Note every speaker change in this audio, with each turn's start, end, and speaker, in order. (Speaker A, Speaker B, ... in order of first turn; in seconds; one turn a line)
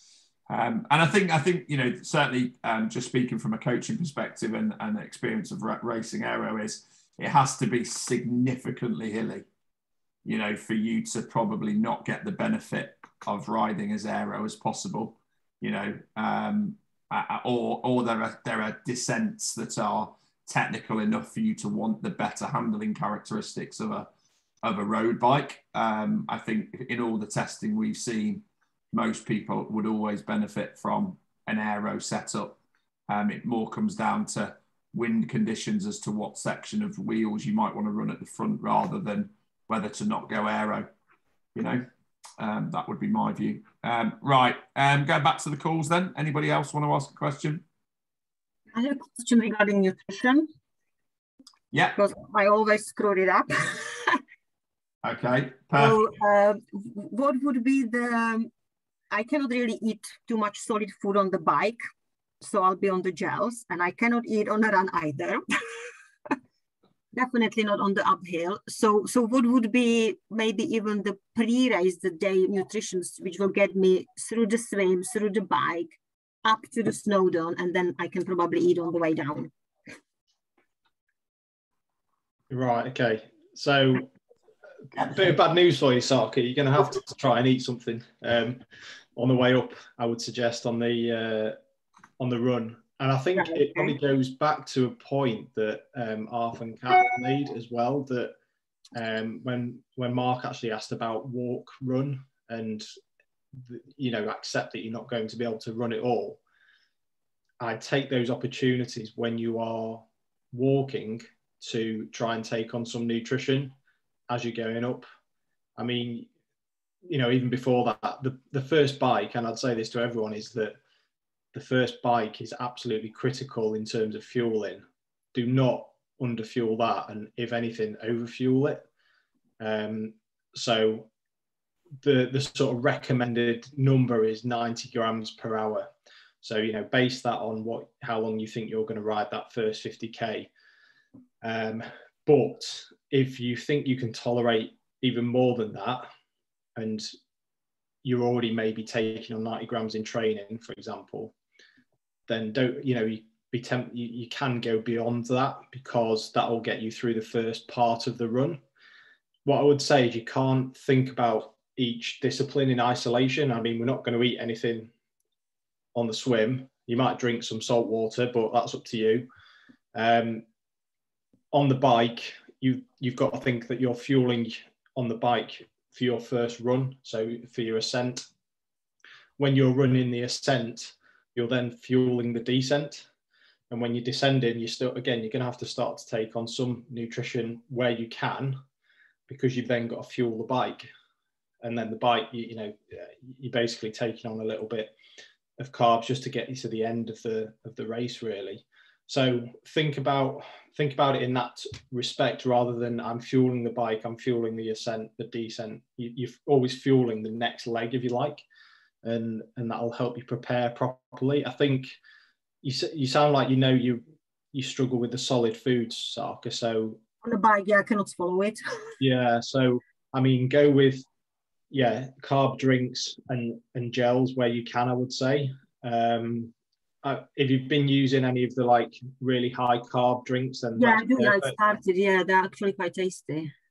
Speaker A: 0.5-9.4
Speaker A: 10.2-24.1
Speaker A: 24.6-32.6
Speaker A: 33.1-40.9
Speaker A: 41.5-41.9
Speaker A: 42.4-47.6
Speaker B: 48.7-50.5
Speaker A: 51.7-52.0
Speaker B: 52.0-54.2
Speaker A: 55.0-56.0
Speaker B: 55.7-58.5
Speaker B: 59.1-61.8
Speaker B: 62.4-65.4
Speaker B: 67.1-79.5
Speaker C: 82.5-84.1
Speaker C: 85.0-88.6
Speaker C: 89.2-91.6
Speaker C: 92.2-98.3
Speaker B: 93.4-93.9
Speaker C: 98.9-102.9
Speaker C: 103.6-106.4
Speaker C: 107.6-113.7
Speaker C: 114.3-115.0
Speaker C: 115.8-116.3
Speaker C: 117.0-120.8
Speaker C: 121.5-128.8
Speaker C: 129.6-131.1
Speaker C: 132.0-135.9
Speaker C: 136.4-140.5
Speaker C: 141.4-146.1
Speaker C: 146.8-147.1
Speaker C: 148.0-151.3
Speaker C: 152.3-158.6
Speaker C: 159.4-164.9
Speaker C: 165.9-169.3
Speaker C: 169.9-170.4
Speaker C: 171.5-178.3
Speaker C: 179.4-183.1
Speaker C: 183.7-188.6
Speaker C: 189.3-190.9
Speaker C: 191.6-194.9
Speaker C: 195.6-208.4
Speaker C: 209.0-211.9
Speaker C: 212.6-217.0
Speaker B: 217.2-218.9
Speaker C: 219.0-221.0
Speaker C: 221.7-231.6
Speaker B: 230.8-233.5